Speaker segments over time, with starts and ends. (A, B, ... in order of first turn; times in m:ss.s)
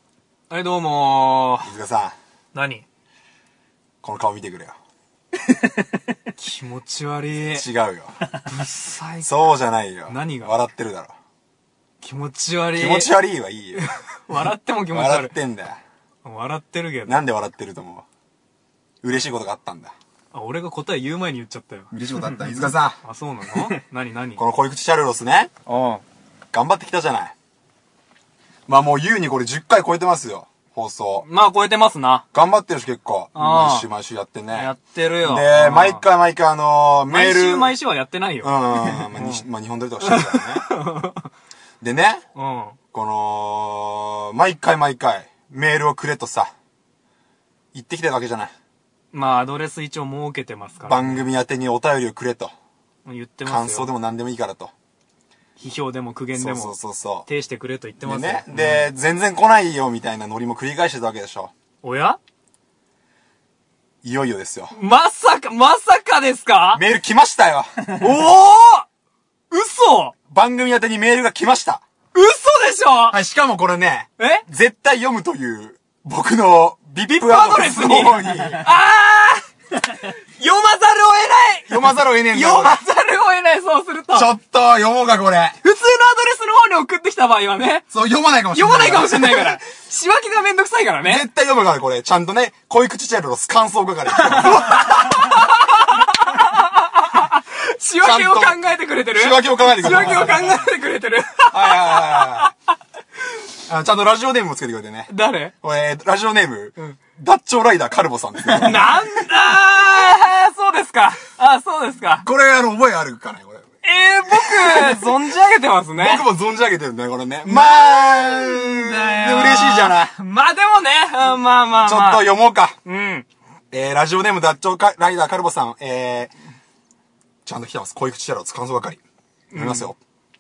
0:00.5-0:01.7 A
0:01.6-0:02.2 B
0:02.5-0:02.8 A
0:04.0-0:04.8 B
0:06.4-0:07.7 A
0:07.6-0:08.2 B
0:08.4-0:09.3 A
0:09.2-0:11.1 B
0:10.1-0:10.6 A
0:12.0-0:13.1 A
0:12.8-0:13.9 B
0:13.8-0:15.4 A
0:14.9-0:15.8 B
0:16.2-0:17.2 A
0:17.1-0:18.0 B
0:19.0-0:20.0 B
0:20.3-0:24.4 A
0:21.9-0:23.0 B
0:24.4-0:25.6 B
0:25.7-0:26.0 A
0:26.5-0:27.3 B
0:28.7-0:31.3 B
0:31.2-0:32.3 A
0:32.3-0:34.7 B
0:33.4-0:33.9 A
0:34.5-0:36.0 A
0:35.2-0:37.8 B
0:37.1-0:39.4 A
0:38.4-0:40.7 B
0:40.0-0:41.3 A
0:41.8-0:42.2 B
0:42.4-0:42.8 A
0:42.9-0:46.5 B
0:47.7-0:48.5 B
0:49.1-0:51.2 A
0:50.9-0:52.6 B
0:53.0-0:53.9 A
0:53.4-0:54.7 B
0:55.6-0:56.8 A
0:56.3-0:57.3 B
0:57.3-0:58.9 A
0:58.0-1:01.5 B
1:01.8-1:02.2 A
1:04.0-1:04.8 B
1:04.7-1:06.8 A
1:06.7-1:07.9 B
1:07.9-1:08.9 A
1:09.5-1:10.2 A
1:10.3-1:11.8 B
1:12.1-1:13.2 A
1:13.1-1:18.7 B
1:14.2-1:14.4 A
1:17.1-1:19.4 A
1:20.1-1:24.3 A
1:21.7-1:22.8 B
1:24.1-1:25.6 B
1:25.6-1:27.9 A
1:27.9-1:29.6 B
1:28.5-1:31.3 A
1:31.0-1:35.5 B
1:34.4-1:42.5 A
1:38.0-1:40.6 B
1:41.5-1:42.5 B
1:43.6-1:45.1 B
1:45.1-1:45.5 A
1:45.6-1:49.0 B
1:48.5-1:52.3 A
1:52.2-1:53.7 B
1:53.8-1:56.3 A
1:54.3-1:55.2 B
1:56.0-2:00.1 B
1:57.4-2:02.3 A
2:01.8-2:02.8 B
2:02.8-2:03.3 A
2:03.7-2:06.3 B
2:07.4-2:09.0 B
2:09.5-2:09.9 A
2:09.6-2:10.0 B